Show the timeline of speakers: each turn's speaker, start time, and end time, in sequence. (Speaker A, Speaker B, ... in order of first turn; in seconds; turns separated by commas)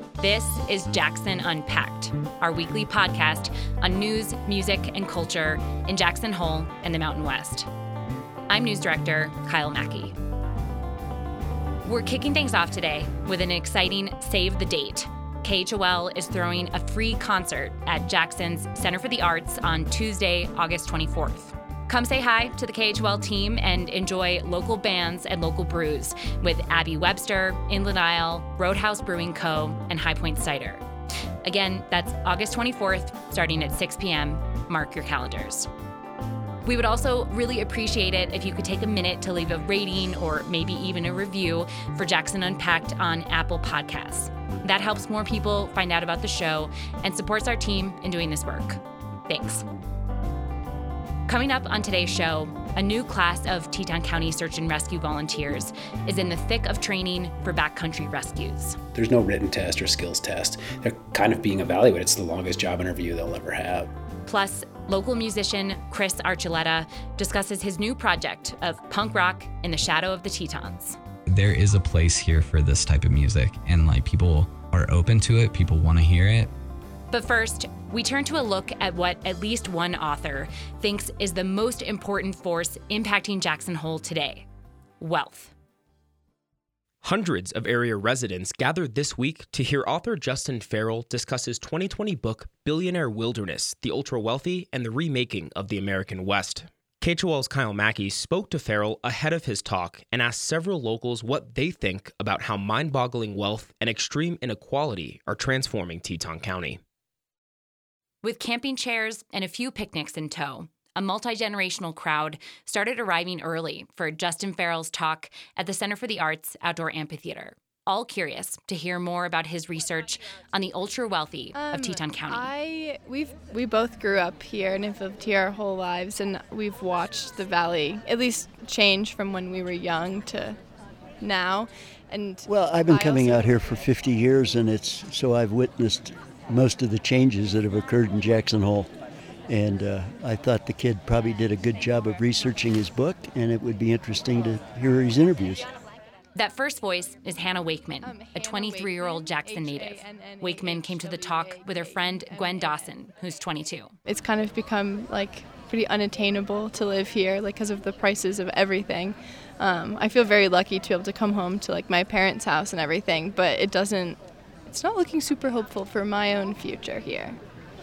Speaker A: 0.2-7.7, Speaker A: 8.5-10.1, Speaker A: 11.8-30.8, Speaker A: 31.4-35.7, Speaker A: 36.6-49.6, Speaker A: 51.3-58.8, Speaker B: 58.9-63.9, Speaker A: 64.3-71.0, Speaker C: 71.3-76.5, Speaker A: 77.1-84.5, Speaker A: 85.0-85.5, Speaker D: 87.0-106.8, Speaker A: 108.2-122.5, Speaker E: 121.5-130.6, Speaker E: 131.2-133.6, Speaker F: 132.4-138.9, Speaker F: 139.5-145.7, Speaker A: 146.3-153.9, Speaker E: 148.0-152.9, Speaker E: 154.0-167.4